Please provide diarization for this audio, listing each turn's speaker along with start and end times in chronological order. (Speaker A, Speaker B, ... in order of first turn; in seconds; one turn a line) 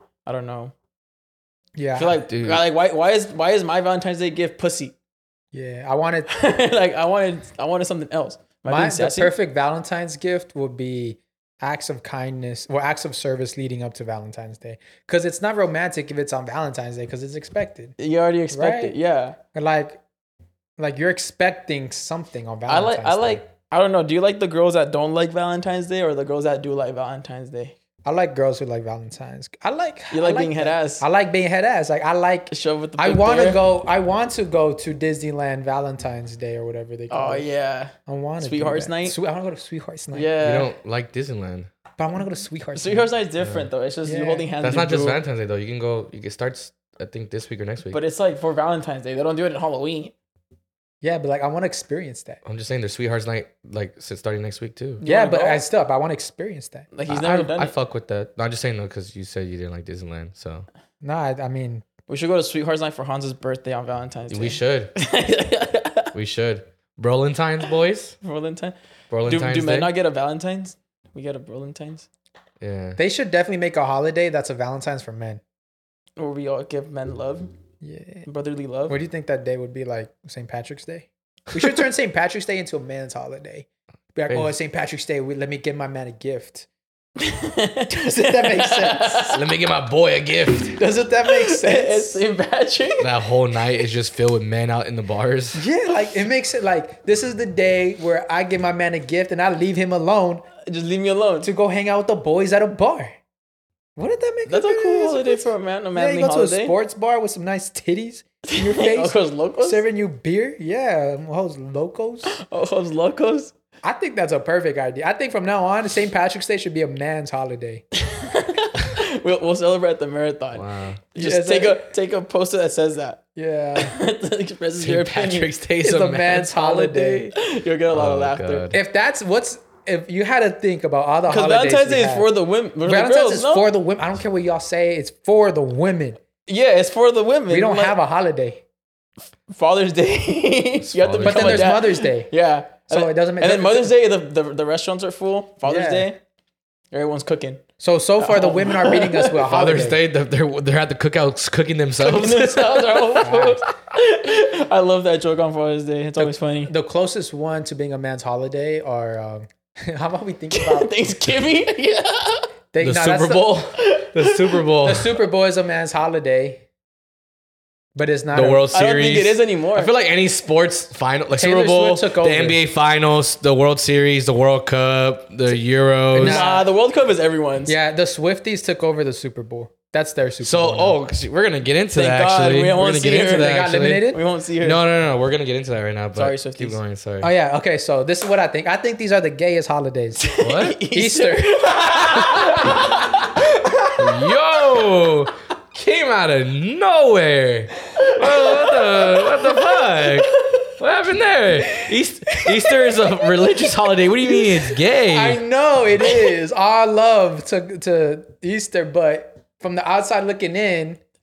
Speaker A: 0.2-0.7
Speaker B: 1.8-2.2
Speaker A: 1.9-4.9
Speaker C: 2.3-2.6
Speaker B: 5.5-6.3
Speaker A: 6.3-9.3
Speaker B: 8.7-17.9
Speaker A: 18.0-19.4
Speaker B: 18.5-19.0
Speaker B: 19.5-20.0
Speaker B: 20.8-23.4
Speaker A: 22.7-27.7
Speaker B: 28.0-37.5
Speaker A: 30.1-31.0
Speaker A: 32.5-33.6
Speaker A: 37.1-39.2
Speaker B: 38.1-40.3
Speaker A: 40.1-40.7
Speaker C: 40.4-41.7
Speaker B: 42.0-43.1
Speaker A: 42.7-45.2
Speaker B: 44.0-44.5
Speaker C: 44.6-48.0
Speaker A: 47.9-50.1
Speaker B: 51.0-52.4
Speaker C: 52.4-55.0
Speaker A: 55.0-55.6
Speaker B: 55.0-56.9
Speaker A: 56.9-57.7
Speaker C: 57.1-60.7
Speaker B: 61.0-61.8
Speaker A: 62.1-66.1
Speaker C: 64.3-64.9
Speaker C: 66.1-68.2
Speaker A: 68.2-72.1
Speaker C: 69.1-69.9
Speaker C: 72.6-73.0
Speaker B: 73.0-75.4
Speaker A: 76.2-77.5
Speaker B: 77.8-78.3
Speaker A: 78.2-79.0
Speaker B: 78.9-86.7
Speaker C: 84.3-84.5
Speaker A: 87.2-89.4
Speaker B: 87.9-89.4
Speaker C: 89.3-90.8
Speaker B: 90.7-92.2
Speaker A: 90.8-93.1
Speaker C: 93.0-95.6
Speaker B: 95.5-100.4
Speaker A: 100.6-101.5
Speaker B: 101.4-103.2
Speaker B: 104.0-112.3
Speaker A: 104.5-106.8
Speaker A: 108.4-109.8
Speaker A: 112.3-113.5
Speaker B: 113.8-117.8
Speaker A: 117.9-123.2
Speaker C: 120.5-121.0
Speaker B: 121.2-121.8
Speaker B: 123.3-124.0
Speaker A: 123.8-125.5
Speaker C: 124.8-127.0
Speaker B: 125.8-127.3
Speaker A: 126.8-128.7
Speaker C: 127.9-128.8
Speaker B: 128.7-132.3
Speaker A: 131.3-133.7
Speaker B: 132.8-136.2
Speaker A: 136.5-138.0
Speaker B: 137.5-138.6
Speaker A: 139.5-146.2
Speaker C: 140.8-141.7
Speaker B: 141.2-142.3
Speaker B: 142.9-143.9
Speaker B: 145.6-146.1
Speaker A: 146.9-147.6
Speaker B: 147.8-150.0
Speaker A: 148.2-149.4
Speaker C: 149.4-153.2
Speaker A: 152.0-156.7
Speaker B: 153.2-153.6
Speaker B: 156.2-161.0
Speaker A: 160.5-162.5
Speaker B: 162.7-163.7
Speaker C: 162.8-165.1
Speaker A: 163.8-164.6
Speaker B: 164.8-166.6
Speaker B: 167.9-168.8
Speaker C: 168.3-176.4
Speaker A: 168.7-169.9
Speaker B: 171.3-172.6
Speaker B: 176.1-176.7
Speaker A: 176.2-177.8
Speaker B: 177.7-181.0
Speaker C: 180.4-187.3
Speaker A: 181.9-184.8
Speaker B: 183.3-184.2
Speaker A: 186.1-186.8
Speaker B: 187.2-190.3
Speaker A: 190.2-192.8
Speaker C: 190.4-190.8
Speaker B: 190.9-192.5
Speaker C: 192.2-192.7
Speaker C: 193.9-205.4
Speaker A: 198.4-200.3
Speaker B: 205.0-211.0